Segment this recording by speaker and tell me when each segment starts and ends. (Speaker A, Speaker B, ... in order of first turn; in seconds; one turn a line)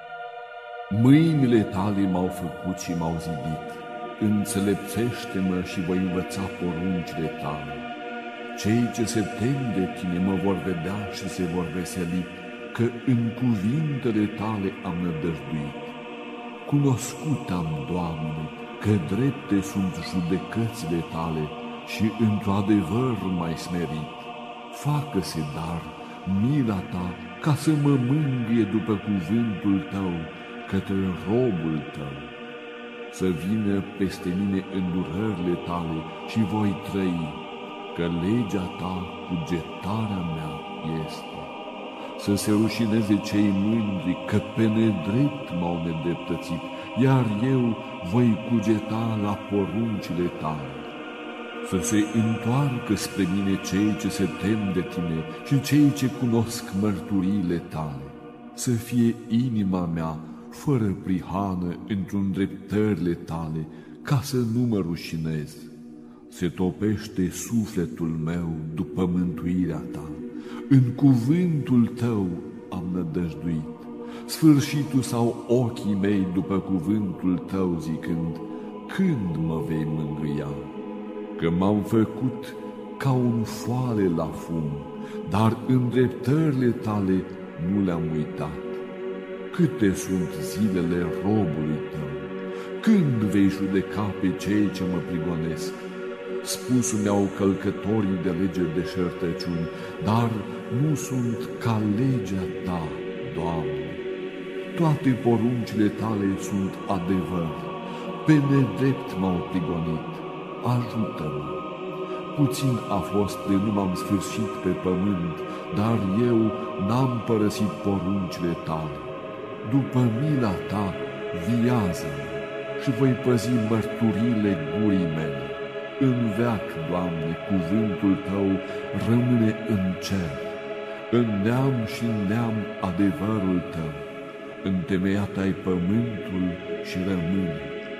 Speaker A: 0.9-7.9
Speaker A: 8.5-16.0
Speaker A: 16.6-32.3
Speaker A: 33.1-37.4
Speaker A: 37.9-41.5
Speaker A: 42.2-50.9
Speaker A: 51.6-65.7
Speaker A: 66.3-80.7
Speaker A: 81.4-88.8
Speaker A: 89.5-95.8
Speaker A: 96.4-104.0
Speaker A: 104.7-111.7
Speaker A: 112.3-130.6
Speaker A: 131.1-134.0
Speaker A: 134.6-137.8